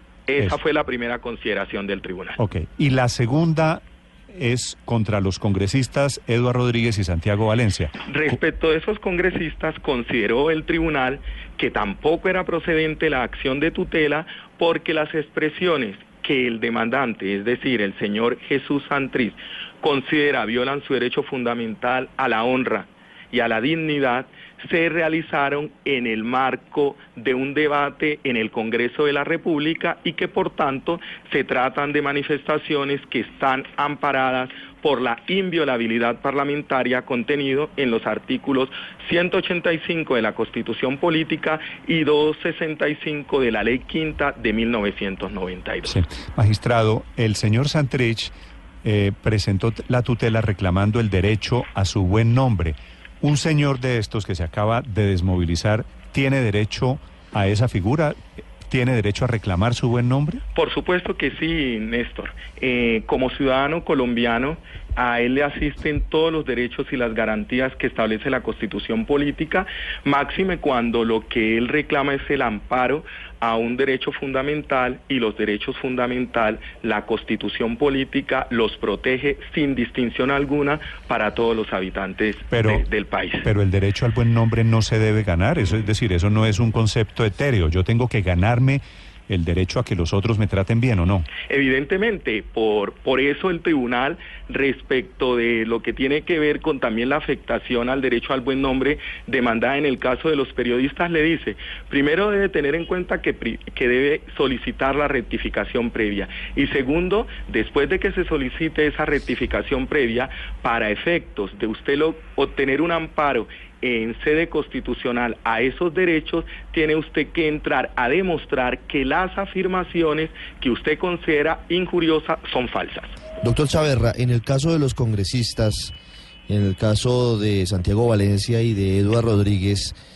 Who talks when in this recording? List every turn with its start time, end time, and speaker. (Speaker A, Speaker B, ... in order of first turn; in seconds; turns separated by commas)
Speaker A: 0.3-2.4, Speaker B: 2.4-8.3, Speaker A: 8.1-46.0, Speaker B: 45.9-48.3, Speaker B: 48.8-60.4, Speaker A: 60.5-83.5, Speaker B: 82.5-82.9, Speaker B: 83.4-91.3, Speaker A: 91.5-123.2, Speaker C: 123.4-125.9, Speaker C: 126.5-129.9